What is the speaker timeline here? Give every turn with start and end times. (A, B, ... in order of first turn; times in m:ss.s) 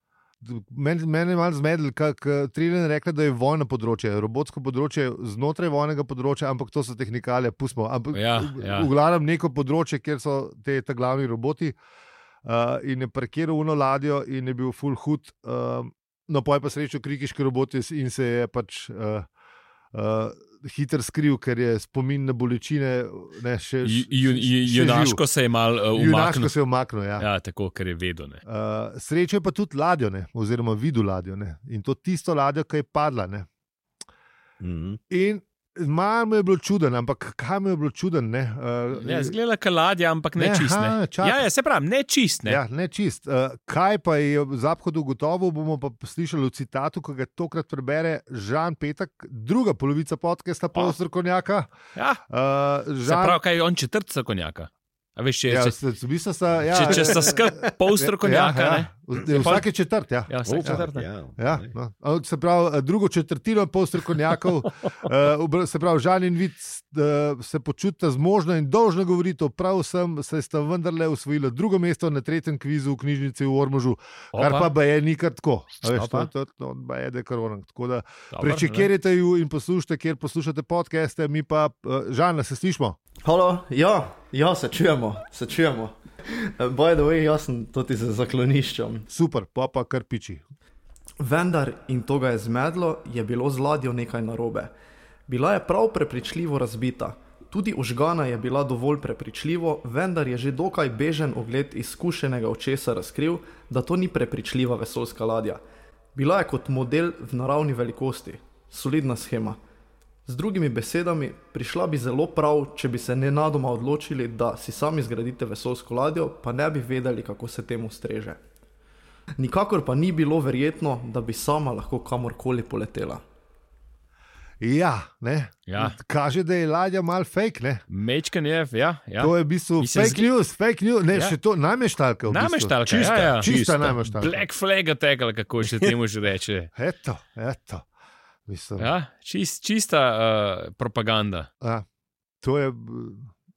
0:00.4-0:11.8 A
0:08.1-0:08.9 B
0:12.4-0:19.3 A
0:19.9-0:25.2 A
0:23.8-0:26.5 B
0:25.9-0:27.3 A
0:27.2-0:28.4 B
0:28.4-0:33.5 A
0:34.6-0:35.0 C
0:35.1-0:39.4 A
0:39.0-0:42.6 B
0:40.4-0:41.4 A
0:42.5-0:51.7 A
0:52.0-0:52.2 B
0:52.3-0:53.4 A
0:53.0-0:55.8 B
0:55.5-1:00.8 A
0:56.7-0:59.7 B
0:56.8-0:57.1 C
1:00.3-1:01.1 B
1:00.4-1:01.7 C
1:01.4-1:23.0 A
1:14.3-1:14.7 B
1:15.8-1:16.3 B
1:18.3-1:18.9 B
1:23.2-1:29.1 D
1:29.1-1:30.4 A
1:31.2-1:34.7 D
1:35.3-1:45.6 D
1:46.2-1:49.6 D
1:50.3-1:58.4 D
1:59.4-2:03.2 D
2:04.6-2:07.8 A
2:05.7-2:06.0 B
2:07.9-2:10.3 B
2:09.2-2:14.4 A
2:11.1-2:11.4 B
2:12.3-2:16.7 B
2:12.9-2:14.0 C
2:15.6-2:15.9 C
2:16.8-2:17.8 A
2:18.5-2:18.9 A
2:18.8-2:21.5 B
2:22.4-2:23.3 A